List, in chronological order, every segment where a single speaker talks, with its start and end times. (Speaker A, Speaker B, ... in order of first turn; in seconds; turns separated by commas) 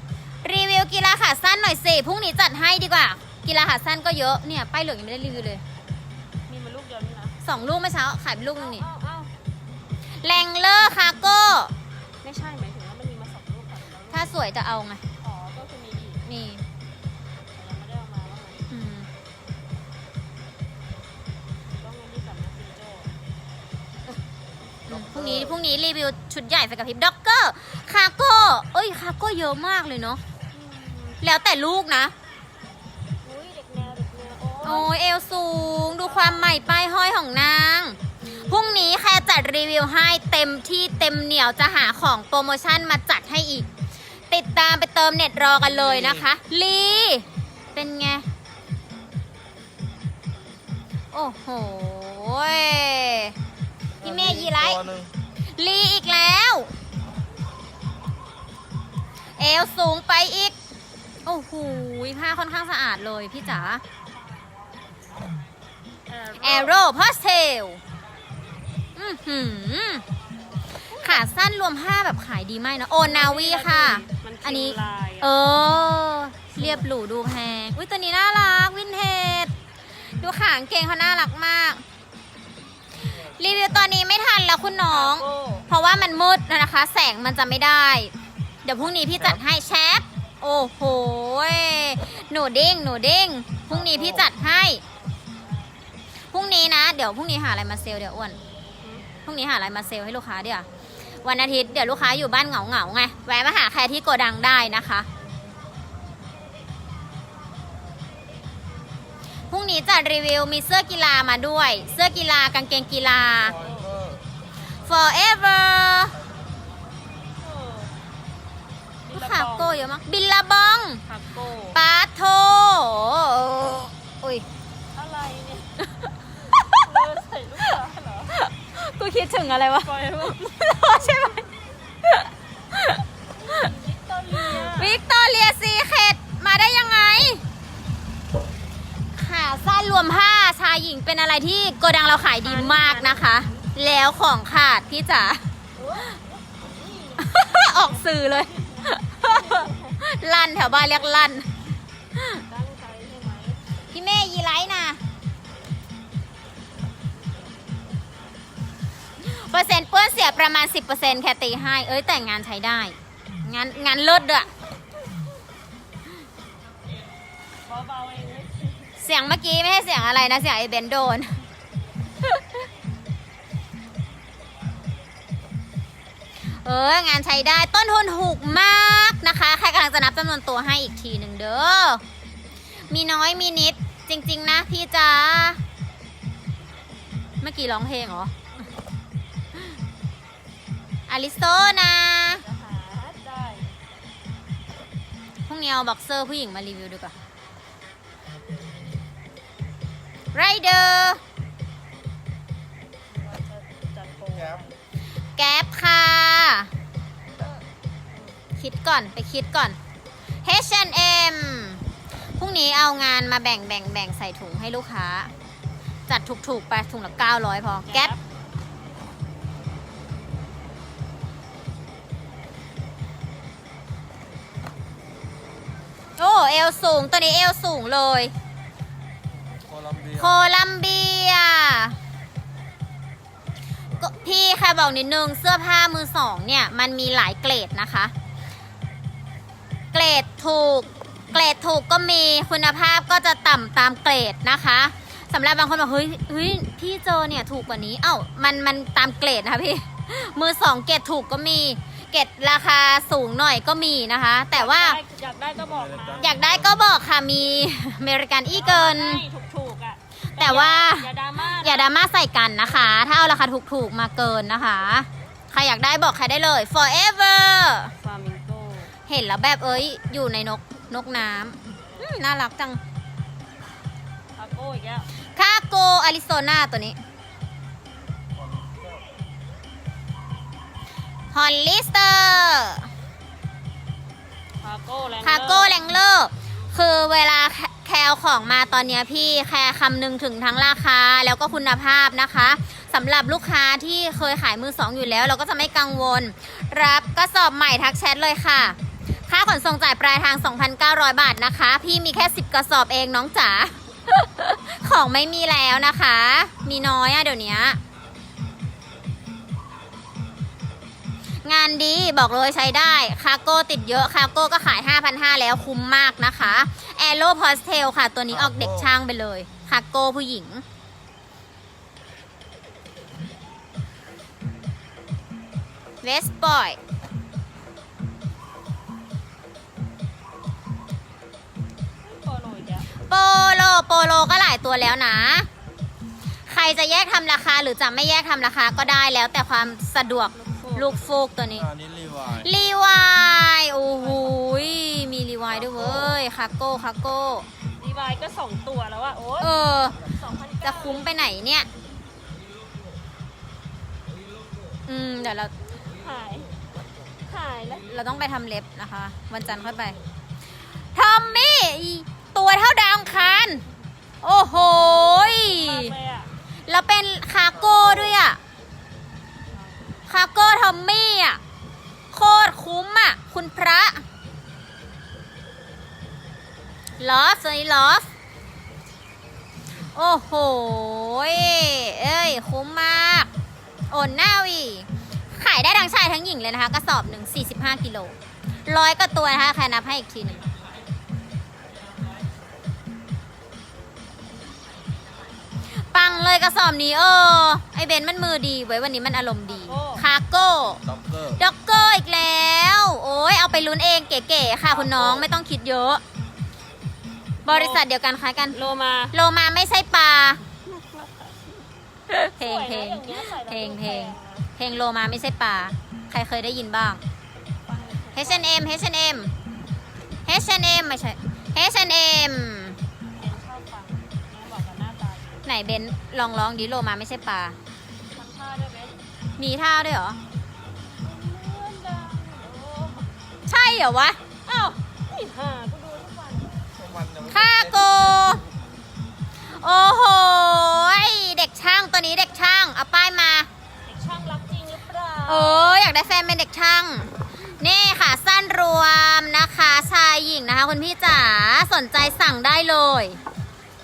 Speaker A: 0.4-5.6, Speaker B: 6.5-7.3, Speaker A: 7.4-8.8, Speaker B: 8.5-9.3, Speaker A: 10.2-11.7, Speaker B: 12.2-14.4, Speaker A: 14.1-15.0, Speaker B: 15.2-16.2, Speaker A: 16.2-16.6, Speaker B: 17.5-18.7, Speaker A: 18.7-19.1, Speaker B: 21.7-23.1, Speaker C: 24.9-25.5, Speaker A: 24.9-30.2, Speaker B: 30.5-31.2, Speaker A: 31.2-32.1, Speaker B: 33.2-34.9, Speaker A: 34.6-43.7, Speaker B: 36.0-36.5, Speaker B: 38.2-38.6, Speaker A: 44.3-48.2, Speaker C: 45.6-46.2, Speaker A: 51.1-53.4, Speaker A: 54.0-54.9, Speaker C: 54.0-55.1, Speaker A: 55.5-56.7, Speaker A: 59.4-60.5, Speaker A: 61.2-63.8, Speaker B: 66.1-66.8, Speaker A: 66.4-67.8, Speaker A: 69.0-70.0, Speaker A: 70.9-79.5, Speaker B: 70.9-71.2, Speaker B: 73.0-75.3, Speaker B: 76.6-76.9, Speaker A: 80.0-81.8, Speaker A: 83.0-88.1, Speaker B: 84.9-85.7, Speaker A: 88.6-94.8, Speaker C: 93.7-94.3, Speaker A: 96.3-98.4, Speaker B: 98.8-99.1, Speaker A: 99.2-100.7, Speaker A: 101.2-105.1, Speaker A: 109.5-113.6, Speaker B: 113.5-114.0, Speaker C: 113.5-114.2, Speaker A: 114.8-116.2, Speaker B: 117.4-117.9, Speaker B: 119.0-119.8, Speaker A: 119.1-121.0, Speaker B: 121.0-121.8, Speaker A: 121.7-124.5, Speaker B: 124.9-125.8, Speaker A: 126.5-127.0, Speaker B: 126.8-128.3, Speaker A: 128.3-131.4, Speaker B: 129.7-130.7, Speaker A: 132.0-133.5, Speaker B: 133.4-135.0, Speaker A: 134.4-137.4, Speaker A: 139.1-145.4, Speaker B: 142.4-143.7, Speaker B: 145.8-150.0, Speaker A: 147.2-151.5, Speaker B: 150.8-151.3, Speaker A: 152.2-152.4, Speaker B: 152.4-153.6, Speaker A: 153.9-155.0, Speaker A: 159.2-164.5, Speaker B: 167.6-169.0, Speaker A: 169.0-171.4, Speaker A: 176.4-182.0, Speaker A: 182.9-185.6, Speaker A: 187.4-188.3, Speaker A: 191.1-192.4, Speaker B: 192.3-193.8, Speaker A: 195.5-197.1, Speaker A: 200.3-201.2, Speaker B: 203.1-204.8, Speaker A: 205.3-206.7, Speaker A: 208.6-209.8, Speaker A: 210.4-211.8, Speaker A: 212.3-215.3, Speaker A: 216.1-218.1, Speaker B: 217.8-218.2, Speaker A: 226.2-228.3, Speaker C: 229.7-230.3, Speaker A: 230.2-232.0, Speaker A: 234.0-238.1, Speaker A: 239.9-255.0, Speaker B: 254.5-256.5, Speaker C: 255.6-256.8, Speaker A: 256.2-259.2, Speaker B: 258.5-261.9, Speaker A: 260.4-267.9, Speaker B: 262.8-263.0, Speaker B: 267.9-268.9, Speaker A: 269.1-272.8, Speaker B: 274.4-275.1, Speaker A: 275.4-277.0, Speaker C: 278.4-279.0, Speaker A: 281.3-282.9, Speaker B: 284.6-285.7, Speaker A: 285.2-298.8, Speaker A: 299.3-307.8, Speaker A: 311.4-320.6, Speaker C: 318.3-318.9, Speaker A: 326.0-326.8, Speaker B: 332.0-332.9, Speaker A: 333.0-335.5, Speaker A: 336.5-341.7, Speaker B: 340.3-341.1, Speaker C: 341.6-342.5, Speaker A: 342.2-347.5, Speaker B: 343.9-344.7, Speaker C: 345.6-346.1, Speaker B: 347.8-351.1, Speaker A: 349.4-350.0, Speaker A: 350.6-351.7, Speaker A: 354.9-355.5, Speaker B: 355.9-356.5, Speaker B: 357.3-357.9, Speaker A: 357.9-360.0, Speaker A: 360.9-363.6, Speaker A: 364.2-365.9, Speaker B: 364.6-366.3, Speaker A: 366.7-368.4, Speaker B: 369.5-369.9, Speaker A: 370.1-371.4, Speaker A: 372.1-374.0, Speaker A: 377.0-378.1, Speaker A: 379.9-383.3, Speaker A: 383.9-388.1, Speaker A: 388.6-390.5, Speaker A: 395.9-400.8, Speaker B: 399.6-400.0, Speaker C: 400.9-401.4, Speaker A: 401.4-406.0, Speaker A: 407.4-408.6, Speaker B: 407.5-407.8, Speaker B: 408.5-409.1, Speaker A: 409.1-410.4, Speaker B: 410.7-411.3, Speaker A: 412.1-417.0, Speaker B: 412.4-414.5, Speaker B: 417.7-418.6, Speaker A: 418.1-419.3, Speaker A: 420.2-422.8, Speaker B: 423.1-425.4, Speaker A: 425.4-427.6, Speaker B: 428.1-429.0, Speaker A: 429.4-430.2, Speaker B: 431.0-433.1, Speaker A: 433.5-434.2, Speaker B: 434.4-436.6, Speaker C: 436.8-438.4, Speaker A: 437.3-438.4, Speaker A: 439.4-443.5, Speaker B: 443.8-445.8, Speaker A: 445.3-453.2